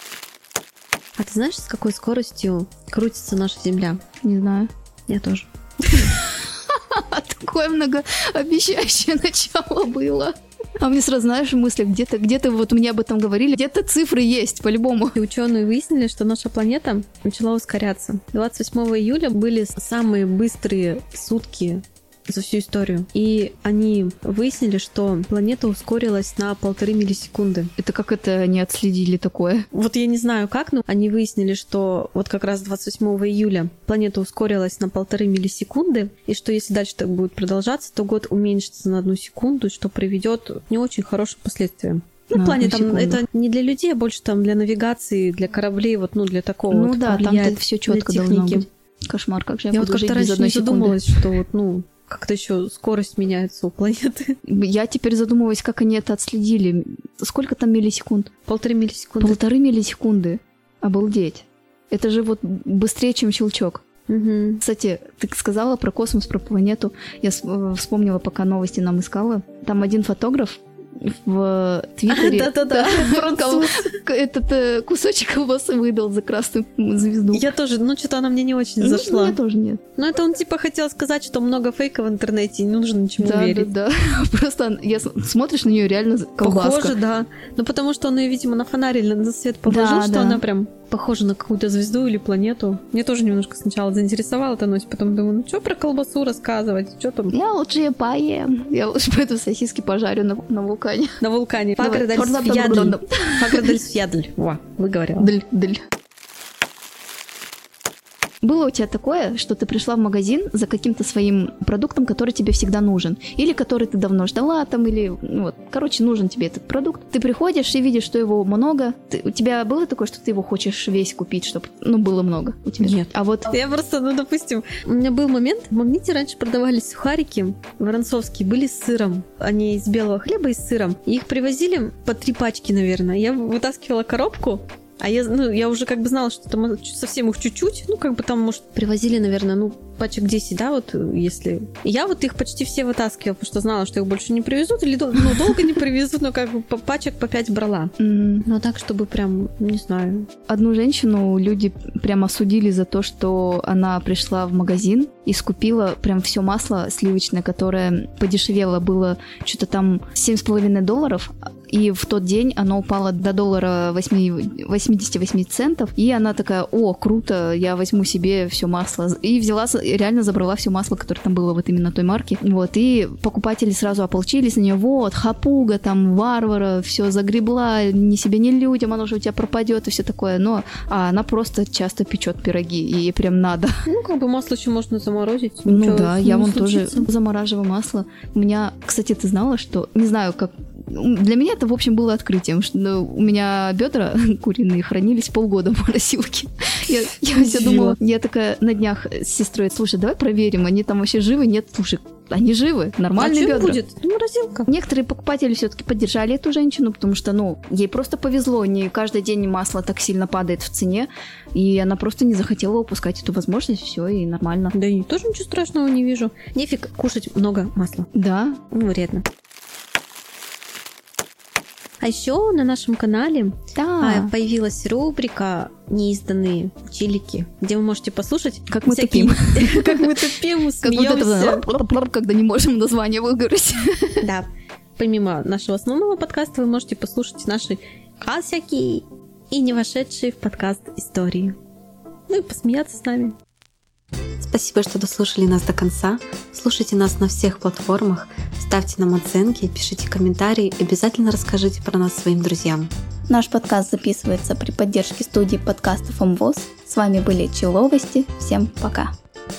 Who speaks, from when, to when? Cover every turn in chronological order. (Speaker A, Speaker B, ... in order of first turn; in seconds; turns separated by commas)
Speaker A: 1.2-4.0, Speaker B: 4.2-4.7, Speaker A: 5.1-6.1, Speaker B: 5.9-15.2, Speaker A: 15.2-27.7, Speaker B: 27.8-29.7, Speaker A: 29.7-48.6, Speaker B: 42.3-43.2, Speaker B: 46.7-51.3, Speaker A: 49.7-54.4, Speaker B: 54.5-58.3, Speaker A: 58.5-59.4, Speaker B: 59.2-63.8, Speaker A: 64.1-64.6, Speaker B: 64.6-77.5, Speaker A: 72.1-74.0, Speaker A: 77.3-79.4, Speaker B: 78.8-79.8, Speaker A: 80.0-83.7, Speaker B: 83.2-87.0, Speaker A: 86.4-97.3, Speaker B: 89.7-90.4, Speaker B: 97.3-101.2, Speaker A: 101.2-105.3, Speaker B: 101.8-103.8, Speaker B: 105.2-105.8, Speaker B: 108.4-123.6, Speaker A: 122.8-147.9, Speaker B: 148.0-148.5, Speaker A: 148.4-150.3, Speaker B: 150.5-183.7, Speaker A: 183.9-187.1, Speaker B: 185.7-203.8, Speaker A: 197.3-198.0, Speaker A: 203.2-204.7, Speaker B: 204.7-214.7, Speaker A: 214.7-218.1, Speaker B: 218.1-218.6, Speaker A: 218.7-219.2, Speaker A: 222.0-231.7, Speaker B: 223.8-224.3, Speaker B: 228.7-234.3, Speaker A: 234.2-241.6, Speaker A: 242.3-243.4, Speaker C: 244.4-252.9, Speaker B: 253.3-259.1